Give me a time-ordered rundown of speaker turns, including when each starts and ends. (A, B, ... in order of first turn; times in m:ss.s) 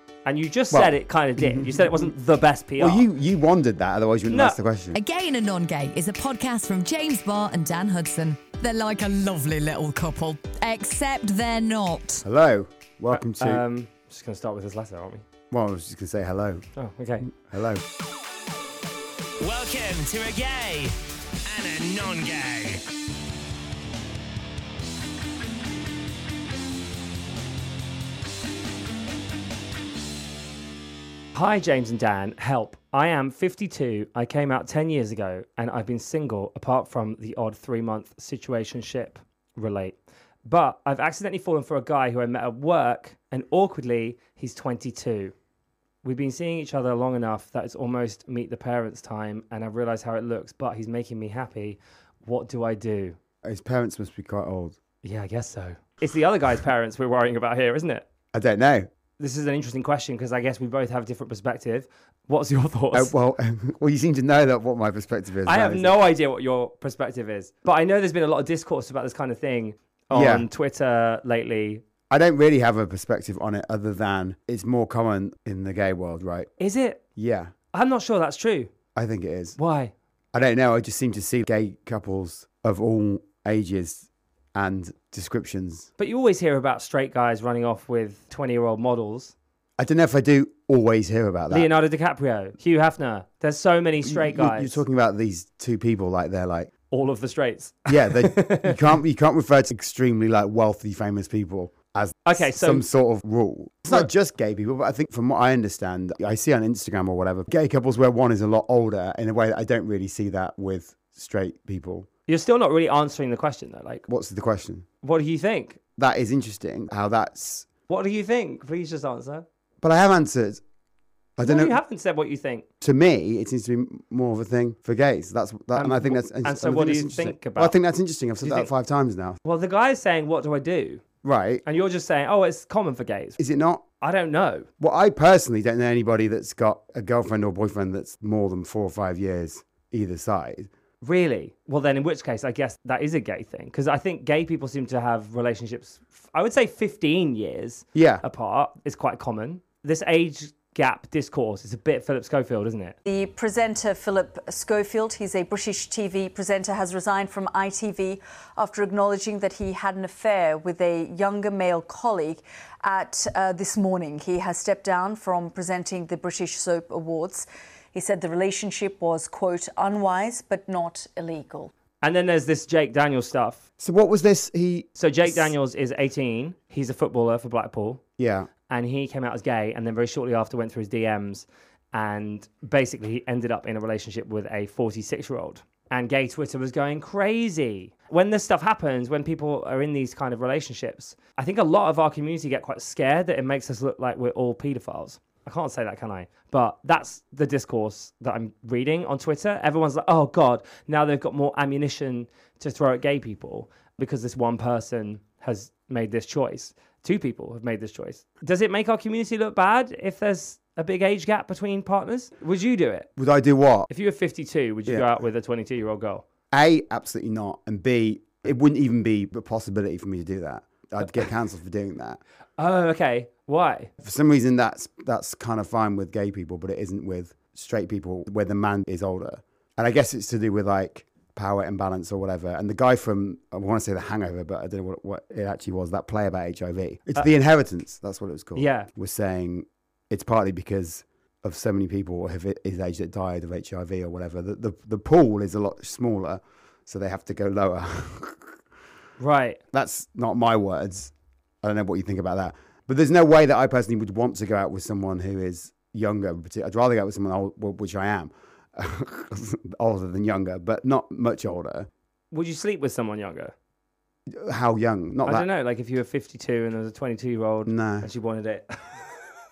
0:00.2-0:03.1 A
0:00.7-0:02.1 B
0:02.8-0:05.0 B
0:04.3-0:04.6 A
0:04.9-0:12.2 C
0:12.2-0:13.6 B
0:13.1-0:15.2 A
0:15.5-0:16.6 B
0:16.8-0:17.3 A
0:17.3-0:17.8 B
0:19.4-0:22.8 D
0:31.4-0:45.3 A
0:46.0-0:53.2 A
0:53.4-0:54.8 B
0:55.0-0:58.1 A
0:58.3-0:58.9 B
0:59.2-1:03.1 A
1:02.9-1:06.0 B
1:05.5-1:11.8 A
1:10.1-1:10.5 B
1:12.1-1:16.5 B
1:16.6-1:17.0 A
1:17.2-1:17.5 B
1:17.7-1:18.7 A
1:19.0-1:19.6 B
1:19.6-1:19.9 A
1:20.3-1:25.9 B
1:26.0-1:29.4 A
1:29.8-1:31.7 B
1:31.5-1:34.8 A
1:34.0-1:36.7 B
1:36.9-1:38.8 A
1:37.9-1:52.1 B
1:42.2-1:42.8 A
1:52.3-1:54.1 A
1:54.1-1:54.9 B
1:55.0-1:55.8 A
1:56.0-1:57.7 B
1:57.9-1:59.4 A
1:59.8-2:00.6 B
2:01.4-2:01.8 B
2:01.4-2:02.6 A
2:02.8-2:09.4 B
2:05.8-2:07.8 A
2:08.4-2:08.7 A
2:09.4-2:11.0 A
2:11.2-2:11.6 B
2:11.6-2:13.4 A
2:13.4-2:13.8 B
2:14.0-2:14.7 A
2:14.8-2:20.7 B
2:21.0-2:33.0 A
2:27.9-2:28.2 B
2:33.1-2:51.7 E
2:52.0-2:53.6 A
2:53.8-2:55.5 B
2:55.0-2:58.0 A
2:58.2-2:58.5 B
2:58.7-3:33.1 A
3:33.2-3:33.9 B
3:33.9-3:36.2 A
3:34.9-3:35.2 B
3:36.5-3:42.2 B
3:42.6-3:43.9 A
3:44.0-4:08.6 B
3:58.6-3:58.9 A
4:09.2-4:09.6 A
4:09.7-4:11.1 B
4:11.6-4:21.9 B
4:22.3-4:23.5 A
4:24.3-4:25.5 B
4:25.2-4:29.2 A
4:27.7-4:28.1 B